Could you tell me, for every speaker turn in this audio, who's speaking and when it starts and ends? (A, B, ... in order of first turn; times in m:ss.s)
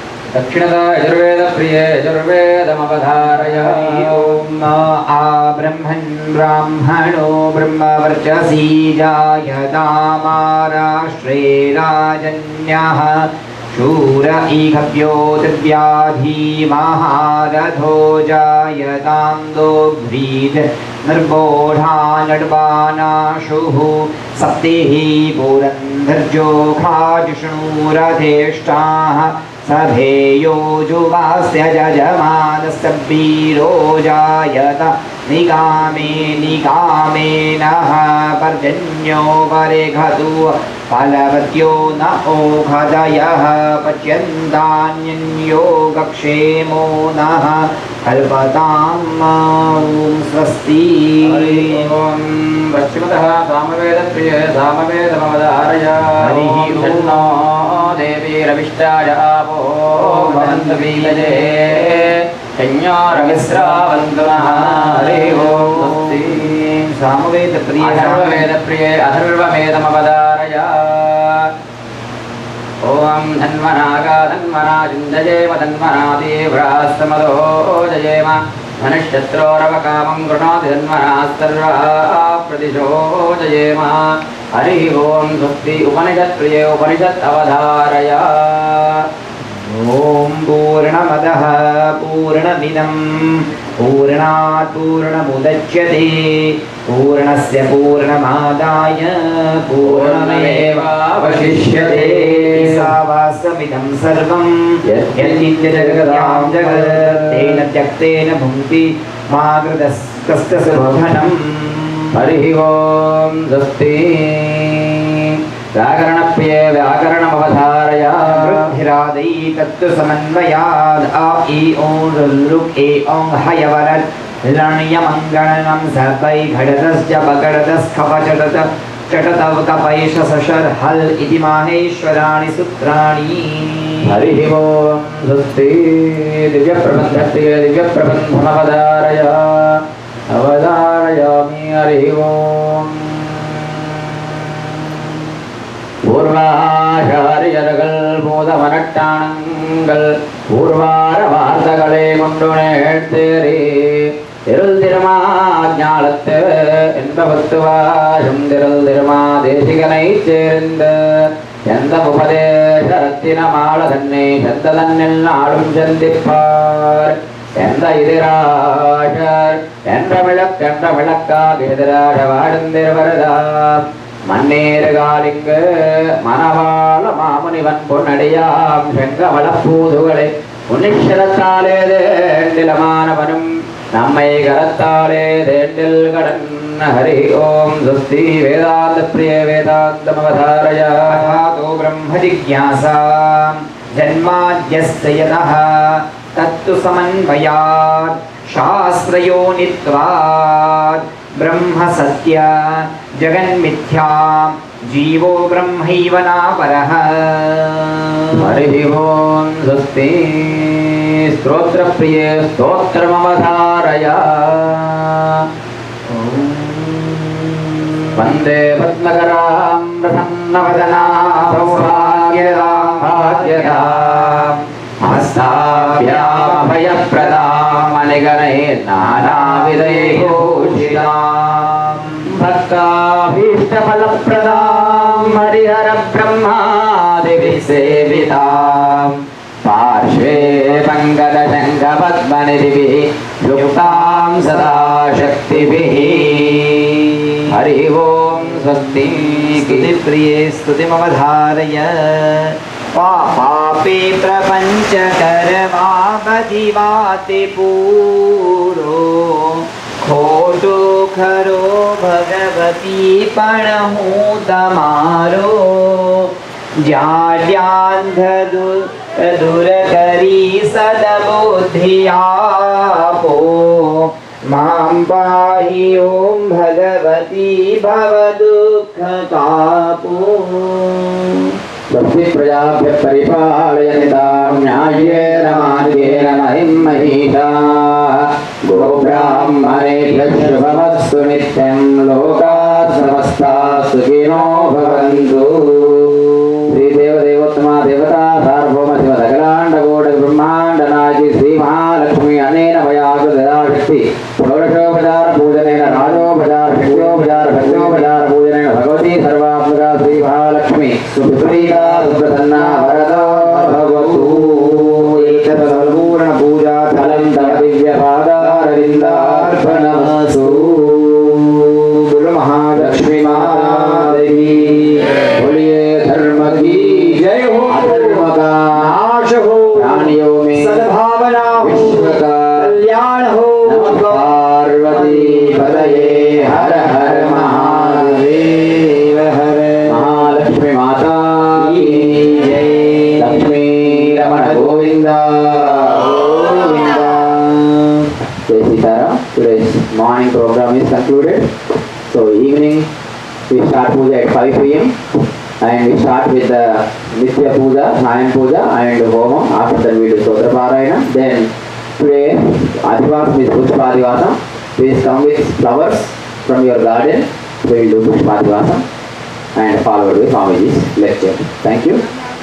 0:00.3-0:04.6 A
0:03.5-0:51.9 B
0:51.2-1:06.6 A
0:56.2-0:57.4 B
0:59.9-1:02.1 B
1:03.1-1:08.5 B
1:07.8-1:11.5 A
1:12.8-1:29.1 A
1:29.6-1:52.1 B
1:39.8-1:42.9 A
1:44.8-1:47.6 A
1:52.1-1:58.7 A
1:58.2-2:14.1 B
2:14.0-2:24.8 A
2:26.0-3:11.4 A
3:11.1-3:28.6 B
3:28.3-3:35.5 A
3:36.1-3:38.2 B
3:38.2-4:06.9 A
3:40.6-3:47.9 B
3:49.0-3:52.3 B
3:54.3-3:55.3 B
3:57.6-3:59.0 B
4:03.5-4:07.4 B
4:07.5-4:09.9 A
4:09.4-4:41.5 B
4:41.9-5:15.8 A
4:44.0-4:46.5 B
4:48.7-4:51.1 B
4:52.2-4:53.8 B
4:54.3-4:56.5 B
5:05.7-5:08.1 B
5:11.1-5:17.6 B
5:16.9-5:20.9 A
5:18.4-5:25.3 B
5:22.8-5:24.8 A
5:25.3-5:28.9 A
5:26.6-5:40.3 B
5:29.7-5:30.8 A
5:31.6-5:32.7 A
5:33.6-5:38.2 A
5:39.9-5:42.5 A
5:41.5-5:48.1 B
5:43.2-5:46.2 A
5:48.5-5:51.5 A
5:52.1-5:52.9 A
5:53.5-5:55.0 A
5:55.6-6:08.8 A
6:09.5-6:12.0 A